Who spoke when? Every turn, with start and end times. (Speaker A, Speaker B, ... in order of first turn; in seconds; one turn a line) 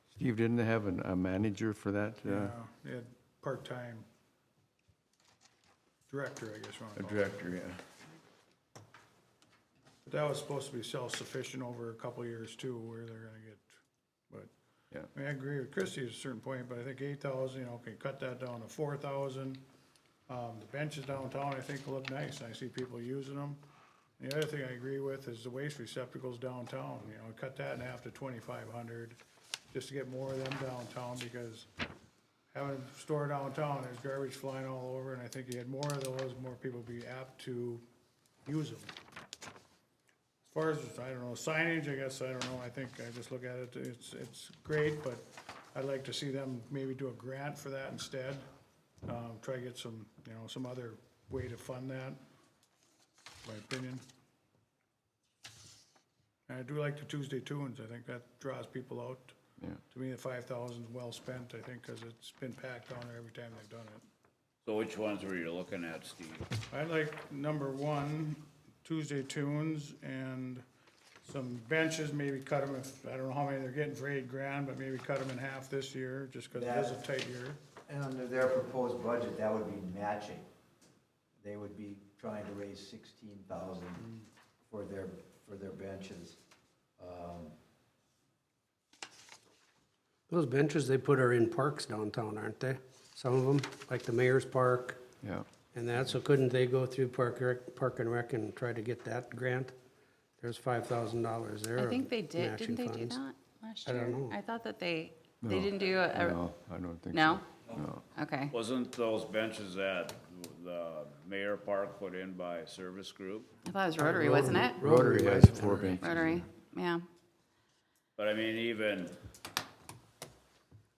Speaker A: 0.2-2.5
Speaker B: 2.2-4.1
Speaker B: 6.1-7.5
Speaker A: 7.0-7.8
Speaker B: 10.1-14.5
Speaker B: 15.1-19.6
Speaker B: 20.3-23.6
Speaker B: 24.2-29.2
Speaker B: 29.7-31.7
Speaker B: 32.5-37.8
Speaker B: 38.5-38.9
Speaker B: 40.5-48.5
Speaker B: 49.0-52.2
Speaker B: 53.5-54.0
Speaker B: 56.5-59.4
Speaker B: 59.9-64.0
Speaker C: 64.7-66.5
Speaker B: 66.7-70.6
Speaker B: 71.2-77.6
Speaker D: 76.5-77.0
Speaker D: 77.9-80.5
Speaker D: 81.4-84.1
Speaker D: 84.7-86.4
Speaker D: 87.0-87.5
Speaker E: 90.3-95.1
Speaker A: 95.2-95.5
Speaker E: 95.7-99.8
Speaker E: 100.4-103.2
Speaker F: 101.8-106.4
Speaker E: 103.9-104.4
Speaker A: 105.4-108.0
Speaker F: 107.1-107.4
Speaker F: 108.2-108.5
Speaker C: 108.5-113.5
Speaker F: 113.7-114.8
Speaker E: 114.0-116.0
Speaker A: 114.8-116.5
Speaker F: 116.0-117.0
Speaker C: 118.2-119.2